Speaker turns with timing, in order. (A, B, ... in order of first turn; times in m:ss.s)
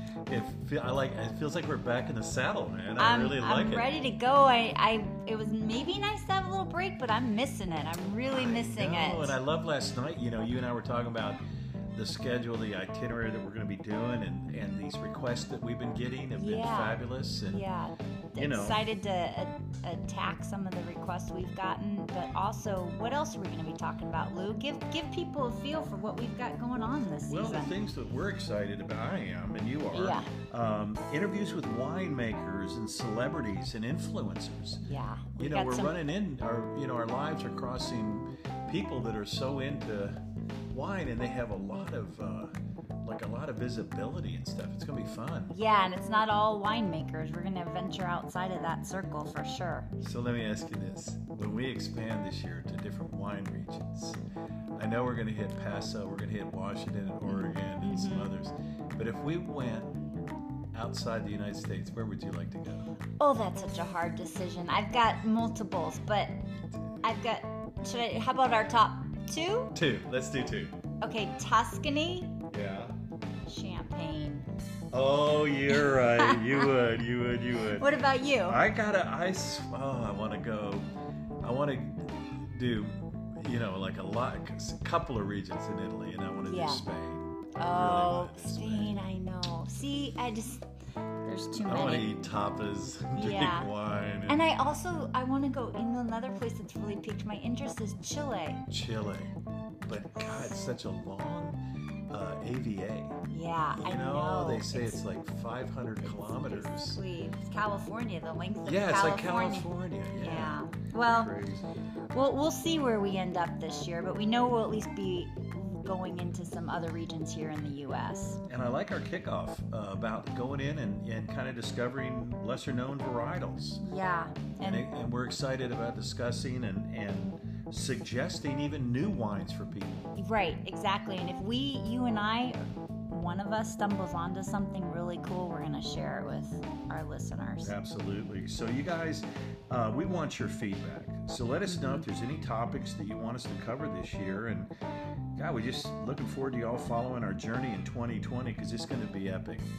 0:00.3-0:03.9 A
0:03.0-0:09.4 B
0:08.2-0:11.4 A
0:11.9-0:17.6 A
0:16.4-0:27.8 B
0:18.4-0:18.8 A
0:27.3-0:34.8 A
0:29.9-0:30.3 B
0:34.8-0:36.0 B
0:35.4-0:40.2 A
0:40.7-0:45.6 A
0:45.5-0:49.9 B
0:50.0-0:54.2 A
0:54.8-1:00.1 A
0:57.3-0:58.3 B
1:00.7-1:02.9 A
1:03.2-1:06.4 B
1:07.0-1:09.8 B
1:09.8-1:10.8 A
1:11.0-1:12.4 B
1:12.5-1:13.0 A
1:13.5-1:14.5 B
1:14.9-1:18.0 A
1:15.7-1:16.7 B
1:17.7-1:18.6 B
1:18.5-1:20.9 A
1:21.4-1:29.0 A
1:26.4-1:26.8 B
1:27.6-1:30.7 B
1:31.2-1:32.1 B
1:31.6-1:34.4 A
1:33.2-1:33.7 B
1:34.3-1:38.6 B
1:38.7-1:43.2 A
1:40.2-1:40.6 B
1:43.3-1:45.0 B
1:43.8-1:47.0 A
1:46.0-1:51.3 B
1:48.6-1:51.7 A
1:52.1-1:58.4 B
1:58.5-2:03.8 A
2:03.8-2:04.9 B
2:04.6-2:10.1 A
2:10.2-2:17.8 B
2:17.6-2:24.7 A
2:21.7-2:22.1 B
2:25.4-2:29.7 A